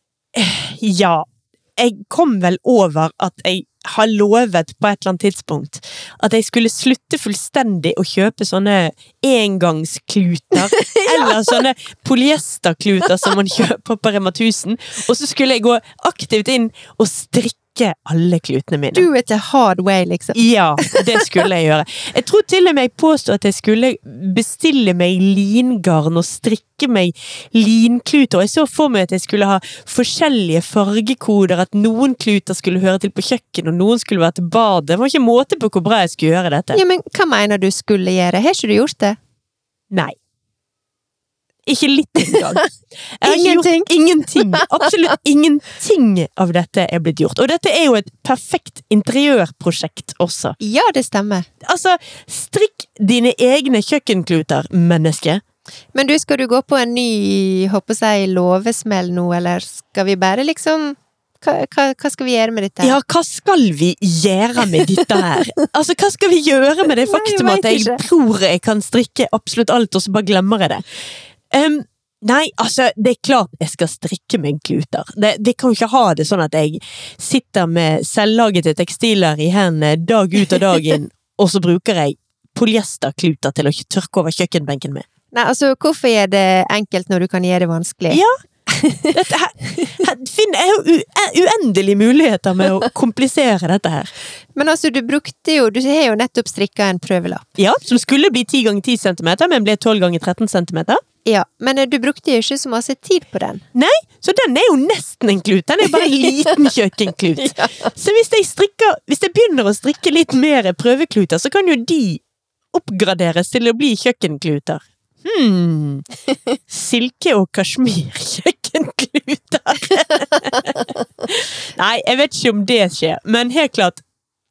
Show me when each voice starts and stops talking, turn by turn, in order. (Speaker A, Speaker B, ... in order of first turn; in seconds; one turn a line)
Speaker A: 0.3-19.1
Speaker B: 10.5-11.6
Speaker B: 18.9-21.4
Speaker A: 20.3-36.8
Speaker B: 36.7-39.2
Speaker A: 39.9-40.1
Speaker A: 41.6-42.6
Speaker B: 42.2-42.7
Speaker A: 43.2-50.5
Speaker B: 43.2-44.9
Speaker B: 50.6-51.5
Speaker A: 51.6-55.4
Speaker B: 55.9-63.0
Speaker A: 62.8-70.8
Speaker B: 64.6-65.6
Speaker B: 66.9-68.0
Speaker A: 71.5-85.0
Speaker B: 85.3-90.0
Speaker A: 89.1-94.1
Speaker B: 94.5-97.5
Speaker A: 97.6-101.0
Speaker B: 101.2-103.6
Speaker A: 103.7-116.1
Speaker B: 107.4-107.9
Speaker A: 116.7-124.0